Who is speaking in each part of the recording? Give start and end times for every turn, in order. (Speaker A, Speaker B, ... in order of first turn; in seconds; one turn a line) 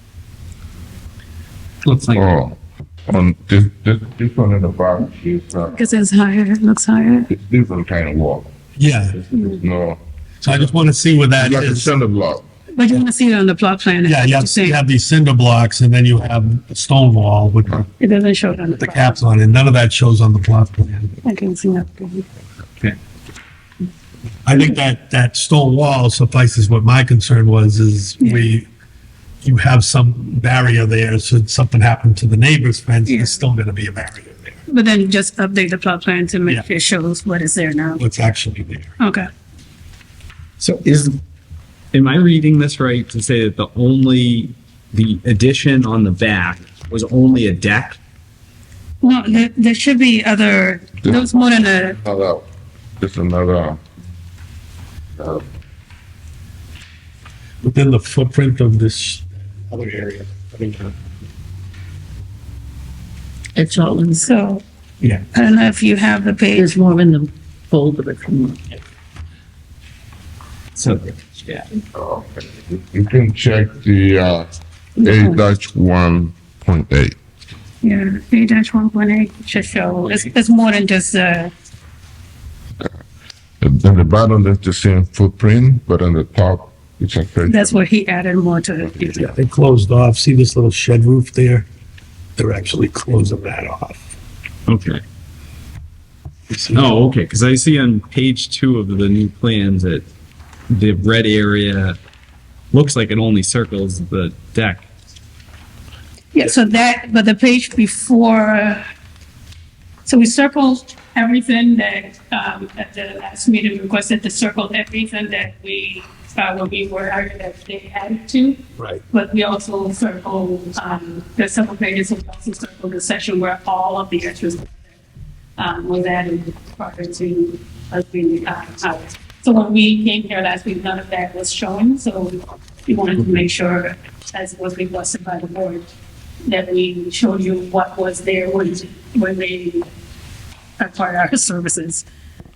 Speaker A: 1.9-2.1
Speaker B: 2.1-5.9
Speaker C: 5.7-7.3
Speaker B: 7.3-8.5
Speaker D: 8.8-9.2
Speaker B: 9.3-10.7
Speaker C: 9.3-9.6
Speaker D: 10.4-11.9
Speaker B: 11.4-12.4
Speaker C: 12.8-14.8
Speaker D: 14.0-17.9
Speaker C: 18.0-19.2
Speaker D: 18.8-21.1
Speaker C: 21.2-22.3
Speaker D: 24.4-28.7
Speaker C: 28.2-28.5
Speaker D: 29.4-34.6
Speaker C: 33.1-33.4
Speaker C: 34.7-38.0
Speaker D: 38.0-38.9
Speaker C: 39.0-39.3
Speaker A: 40.6-41.1
Speaker A: 41.9-48.0
Speaker C: 49.0-52.0
Speaker B: 52.0-52.5
Speaker B: 53.0-53.8
Speaker B: 55.2-55.4
Speaker D: 57.6-61.0
Speaker E: 63.5-64.3
Speaker C: 64.2-64.6
Speaker C: 65.3-66.8
Speaker E: 66.5-68.6
Speaker A: 70.8-71.7
Speaker B: 71.9-77.2
Speaker C: 75.0-75.4
Speaker C: 77.8-81.5
Speaker B: 83.6-87.8
Speaker C: 87.4-89.3
Speaker D: 89.2-91.7
Speaker D: 92.4-94.1
Speaker A: 94.7-95.0
Speaker D: 96.5-96.9
Speaker A: 96.7-100.1
Speaker A: 100.7-102.0
Speaker A: 102.7-104.8
Speaker C: 106.3-108.8
Speaker C: 110.1-125.0
Speaker C: 125.6-135.9
Speaker C: 136.4-139.9
Speaker C: 140.8-142.1